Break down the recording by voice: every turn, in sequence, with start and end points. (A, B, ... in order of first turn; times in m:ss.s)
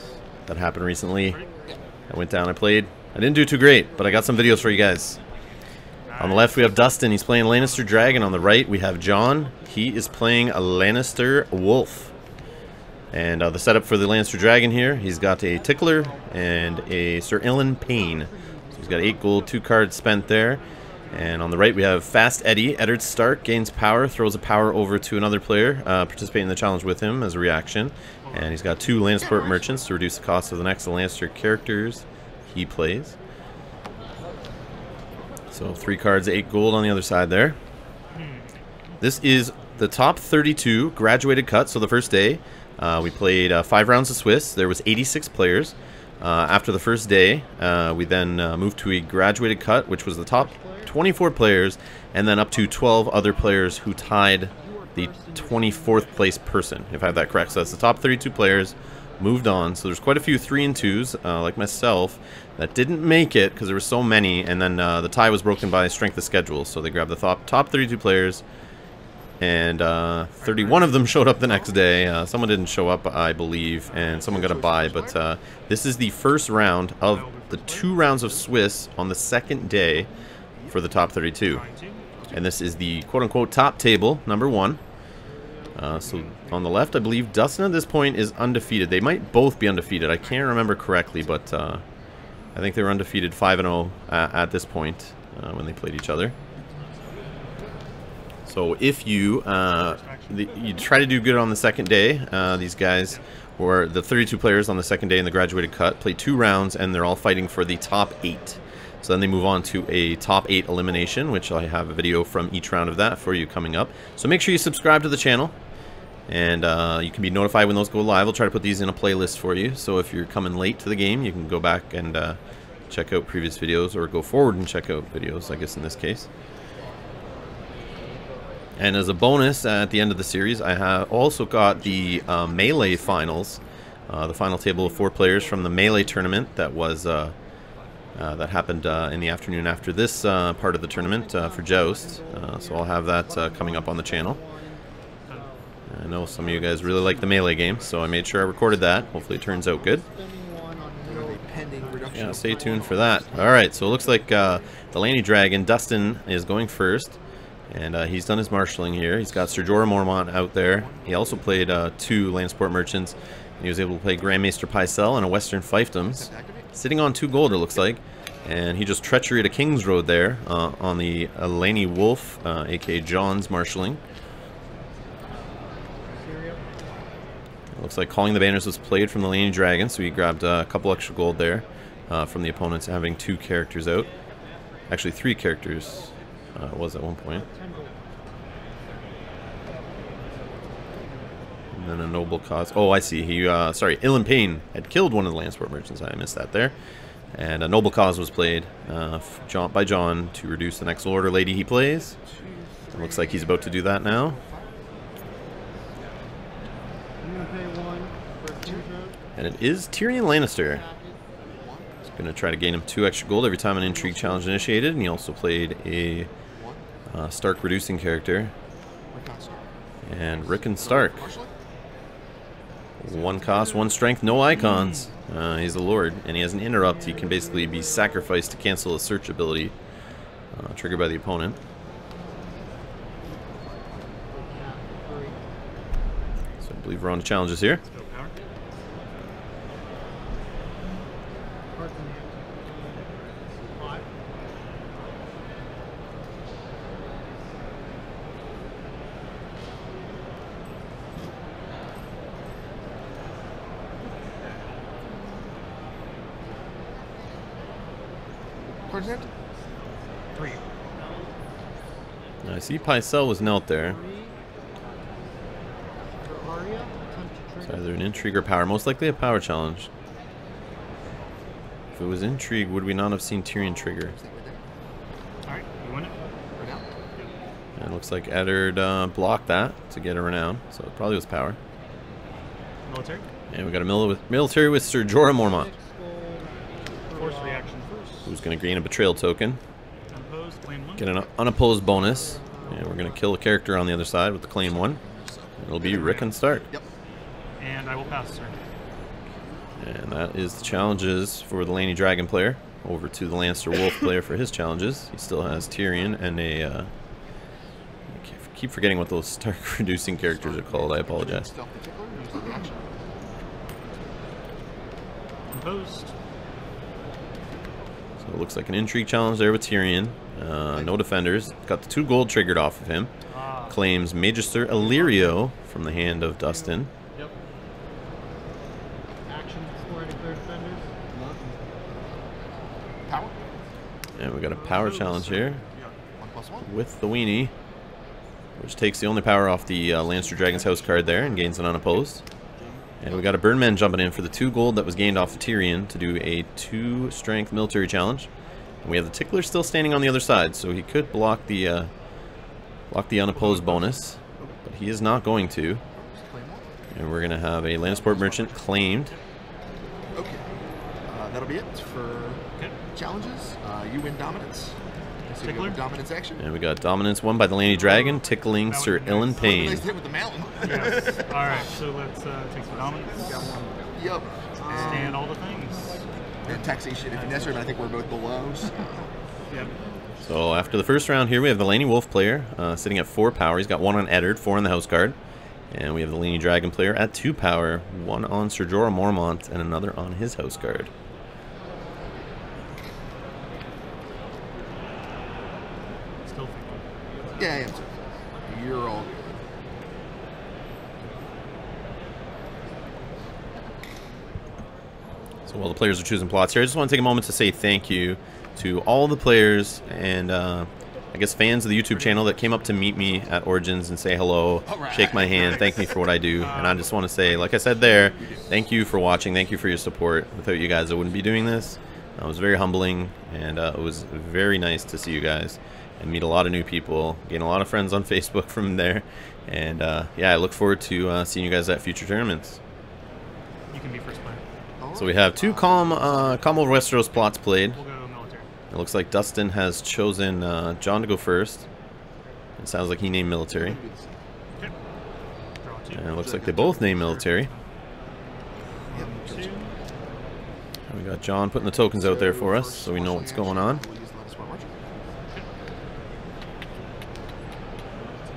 0:00.5-0:01.4 A
0:01.2-0:01.4 B
0:01.3-0:01.8 C
0:02.1-0:05.2 A
0:06.0-0:06.7 B
0:06.2-0:12.1 A
0:13.1-0:33.2 A
0:16.1-0:16.9 C
0:17.9-0:19.4 C
0:28.2-0:29.0 B
0:29.2-0:29.8 D
0:35.5-0:37.6 A
0:38.1-0:38.6 B
0:39.0-1:08.4 A
0:50.3-0:51.0 C
0:53.2-0:53.8 B
0:54.5-0:56.3 C
0:57.1-0:59.4 C
1:09.4-1:20.1 A
1:10.4-1:11.5 B
1:13.8-1:14.5 B
1:14.2-1:15.2 D
1:17.1-1:17.9 B
1:20.6-1:21.1 D
1:20.7-1:21.6 A
1:21.4-1:22.0 B
1:22.1-1:22.5 D
1:22.3-1:24.8 A
1:25.4-1:25.8 C
1:25.7-1:31.8 A
1:26.0-1:26.6 B
1:32.5-1:36.3 A
1:38.5-1:55.5 A
1:39.7-1:40.9 B
1:56.3-2:02.4 A
2:02.9-2:06.3 A
2:08.8-2:17.3 A
2:11.8-2:13.4 D
2:14.8-2:16.5 C
2:18.1-2:24.4 A
2:20.9-2:28.2 C
2:25.9-2:30.0 A
2:27.4-2:29.2 D
2:28.8-2:34.2 C
2:31.0-2:34.3 D
2:32.1-2:37.2 A
2:37.7-2:54.0 A
2:39.5-2:39.8 D
2:40.6-2:41.5 D
2:46.0-2:46.7 D
2:56.1-2:56.6 C
2:57.8-3:04.1 A
3:04.9-3:07.4 A
3:07.3-3:08.0 C
3:11.7-3:16.7 A
3:17.3-3:22.2 A
3:22.2-3:24.8 D
3:22.9-3:24.4 A
3:27.2-3:29.2 C
3:29.4-3:30.8 A
3:30.4-3:31.2 C
3:31.4-3:31.9 D
3:32.2-3:36.3 A
3:33.8-3:34.7 D
3:36.5-3:36.8 D
3:37.1-3:38.5 A
3:39.1-3:39.7 D
3:40.0-3:41.3 A
3:40.4-3:41.5 D
3:43.0-3:49.7 A
3:44.5-3:45.1 B
3:46.8-3:48.4 C
3:50.5-3:51.6 A
3:54.3-3:55.4 C
3:56.6-3:57.8 A
3:57.8-3:58.3 B
4:01.7-4:03.0 C
4:03.7-4:04.1 C
4:18.9-4:19.3 D
4:20.4-4:20.6 B
4:22.4-4:24.0 A
4:23.4-4:24.3 C
4:26.2-4:28.0 C
4:27.6-4:29.9 A
4:32.0-4:34.1 A
4:33.5-4:34.6 D
4:35.4-4:36.1 B
4:36.6-4:36.9 D
4:37.8-4:41.6 A
4:42.8-4:43.2 B
4:43.5-4:45.7 A
4:45.3-4:48.3 C
4:47.1-4:48.2 B
4:48.2-4:49.6 A
4:50.1-4:51.1 B
4:51.0-4:55.0 A
4:51.8-4:53.3 C
4:54.6-4:56.0 D
4:55.6-4:56.7 A
4:55.9-4:56.3 B
4:57.6-4:58.6 B
4:59.8-5:06.9 A
5:00.3-5:01.0 D
5:08.1-5:11.5 A
5:10.2-5:12.9 D
5:15.5-5:16.1 B
5:18.2-5:23.1 A
5:20.7-5:21.0 D
5:23.3-5:23.8 B
5:23.7-5:26.9 A
5:24.8-5:25.4 B
5:26.2-5:26.8 C
5:29.2-5:30.9 C
5:33.1-5:33.4 D
5:34.2-5:35.6 A
5:34.6-5:35.8 B
5:36.2-5:36.7 D
5:36.6-5:37.5 A
5:38.6-5:42.2 A
5:40.1-5:41.4 D
5:43.0-5:48.3 A
5:43.0-5:43.4 D
5:48.8-5:51.9 A
5:52.9-5:55.8 A
5:53.3-5:53.9 B
5:55.9-5:56.7 D
5:56.9-5:59.1 A
5:58.9-5:59.2 B
6:00.1-6:00.4 D
6:01.0-6:02.4 D
6:02.9-6:04.8 D
6:05.3-6:06.4 D
6:05.4-6:05.8 B
6:06.4-6:09.8 A
6:07.7-6:09.8 B
6:09.4-6:11.8 D
6:10.6-6:13.6 B
6:12.7-6:15.3 D
6:14.6-6:16.6 C
6:14.7-6:16.0 B
6:16.4-6:19.1 D
6:17.1-6:17.6 B
6:20.2-6:25.2 A
6:25.7-6:30.9 A
6:36.2-6:36.8 B
6:37.3-6:37.9 D
6:38.4-6:39.4 D
6:45.5-7:12.6 A
6:51.9-6:52.8 B
6:54.6-6:56.1 D
6:55.3-6:55.7 B
6:56.4-6:57.0 B
6:58.0-6:58.6 D
7:13.7-7:14.4 B
7:14.8-7:16.9 D
7:14.9-7:17.8 A
7:17.7-7:18.5 B
7:18.7-7:21.6 A
7:22.6-7:23.8 A
7:23.5-7:24.1 D
7:25.6-7:27.6 B
7:25.9-7:27.5 A
7:26.2-7:27.0 D
7:28.7-7:29.5 D
7:28.9-7:29.7 B
7:30.9-7:33.8 A
7:32.0-7:34.8 D